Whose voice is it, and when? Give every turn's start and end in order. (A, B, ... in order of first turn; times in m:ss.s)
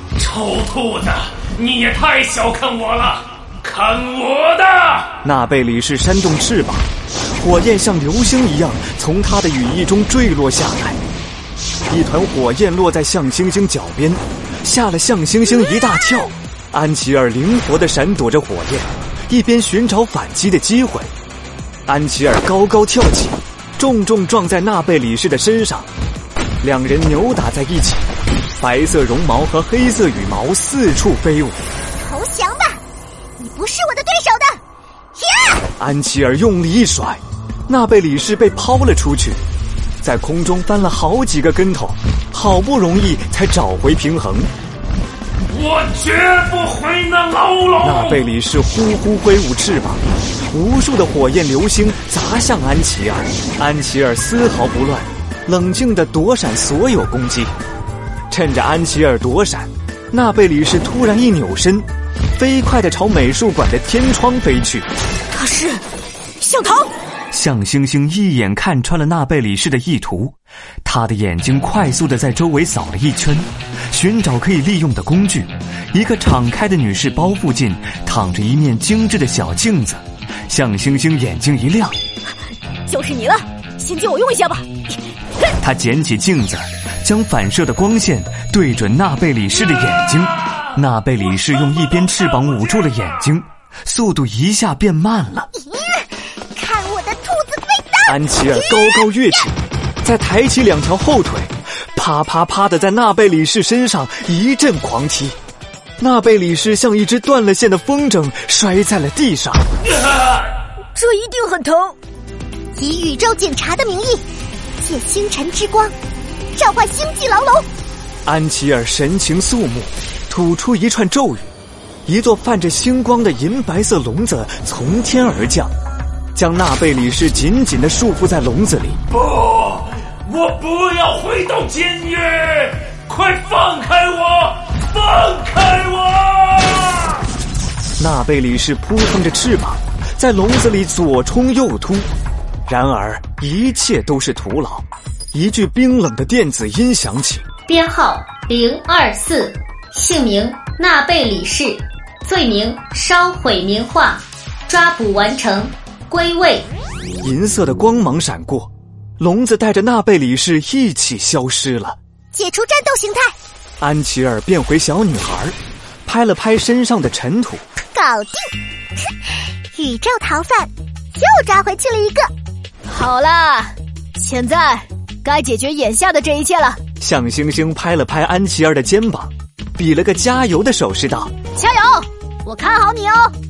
0:00.2-0:05.1 A
0:05.2-0:11.0 B
0:11.8-0:21.1 B
0:21.9-0:25.9 B
0:26.6-0:28.0 B
0:28.6-0:31.6 B
0:32.0-0:32.8 C
0:33.4-0:34.6 C
0:35.2-0:35.6 C
0:35.8-0:39.4 B
0:40.0-0:44.5 B
0:45.4-0:48.2 A
0:47.8-0:57.5 B
0:58.3-1:04.9 B
1:05.3-1:05.8 D
1:06.4-1:06.9 D
1:07.3-1:22.0 B
1:22.9-1:24.7 D
1:25.6-1:35.5 B
1:35.5-1:39.0 C
1:38.1-1:45.4 B
1:46.0-1:49.6 B
1:50.9-1:52.0 D
1:52.8-1:54.2 C
1:54.8-1:55.9 C
1:56.5-1:57.6 C
1:58.2-2:01.5 B
2:02.0-2:05.7 B
2:06.3-2:09.0 B
2:09.1-2:17.2 A
2:18.0-2:22.1 B
2:22.7-2:27.4 B
2:27.7-2:28.8 E
2:29.2-2:32.4 D
2:32.5-2:32.9 E
2:33.0-2:33.5 D
2:33.6-2:34.2 E
2:34.7-2:35.2 D
2:34.8-2:35.7 E
2:36.3-2:36.6 E
2:37.2-2:42.0 B
2:42.3-2:43.3 C
2:43.8-2:47.6 B
2:47.9-2:48.5 C
2:49.7-2:52.3 C
2:52.9-2:56.8 D
2:57.0-3:01.3 B
3:01.5-3:03.3 D